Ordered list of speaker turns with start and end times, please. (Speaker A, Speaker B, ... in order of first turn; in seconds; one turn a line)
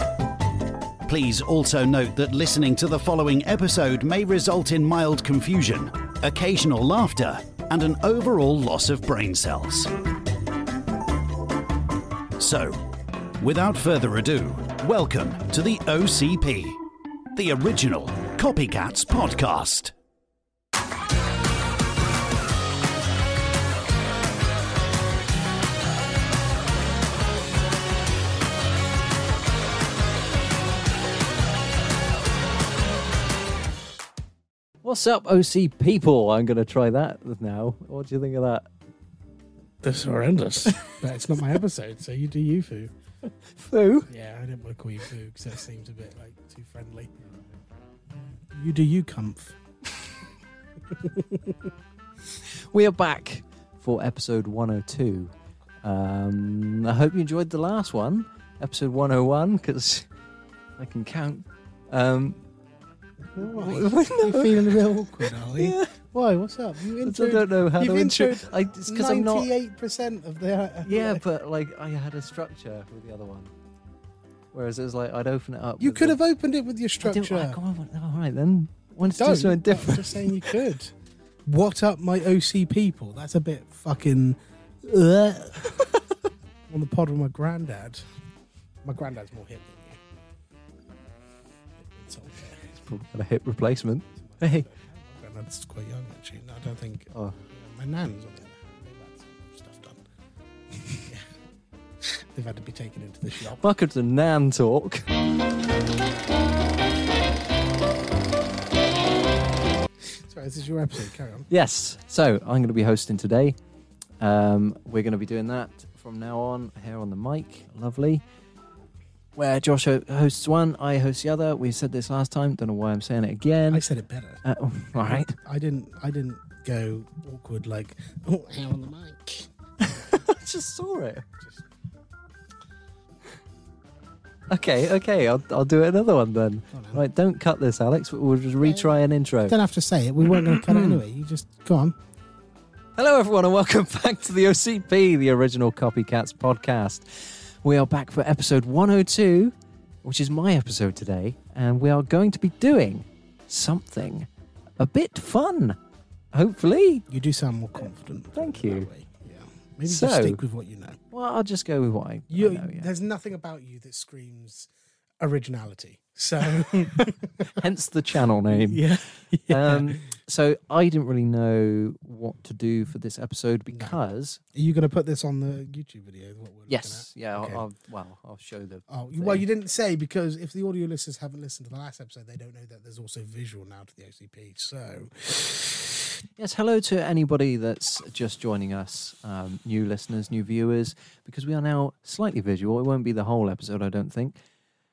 Speaker A: 1.1-9.9
Speaker A: 12.4-12.9
Speaker A: 13.4-16.8
Speaker A: 17.3-19.9
Speaker B: 34.8-38.7
Speaker C: 39.8-42.9
Speaker B: 43.4-44.1
Speaker C: 44.1-47.1
Speaker C: 48.1-49.6
Speaker C: 50.9-51.7
Speaker B: 52.6-55.3
Speaker B: 55.8-60.1
Speaker B: 60.8-62.4
Speaker C: 63.4-71.2
Speaker B: 63.4-65.9
Speaker B: 67.0-69.5
Speaker B: 70.8-73.5
Speaker B: 74.5-76.2
Speaker C: 75.8-77.6
Speaker B: 77.0-80.5
Speaker C: 79.1-80.9
Speaker C: 81.5-85.9
Speaker C: 86.7-88.0
Speaker C: 88.8-90.0
Speaker C: 91.8-92.8
Speaker B: 92.8-94.7
Speaker C: 94.2-100.0
Speaker C: 100.9-101.3
Speaker C: 102.0-103.6
Speaker B: 103.6-105.1
Speaker C: 110.0-111.5
Speaker B: 111.5-113.6
Speaker B: 114.2-118.2
Speaker B: 119.4-123.8
Speaker C: 123.7-124.4
Speaker B: 124.4-125.3
Speaker C: 125.0-129.5
Speaker B: 129.8-131.3
Speaker B: 134.5-139.6
Speaker C: 136.7-137.0
Speaker C: 138.6-142.0
Speaker B: 140.3-141.0
Speaker B: 143.0-155.8
Speaker B: 156.3-157.1
Speaker C: 157.1-161.0
Speaker B: 158.3-158.9
Speaker B: 159.8-160.4
Speaker B: 161.1-162.9
Speaker C: 162.3-164.7
Speaker C: 165.2-167.5
Speaker B: 167.5-168.8
Speaker C: 168.5-170.0
Speaker B: 169.5-174.4
Speaker C: 173.7-174.0
Speaker C: 174.5-177.6
Speaker B: 176.7-179.4
Speaker C: 178.9-186.1
Speaker B: 186.4-194.4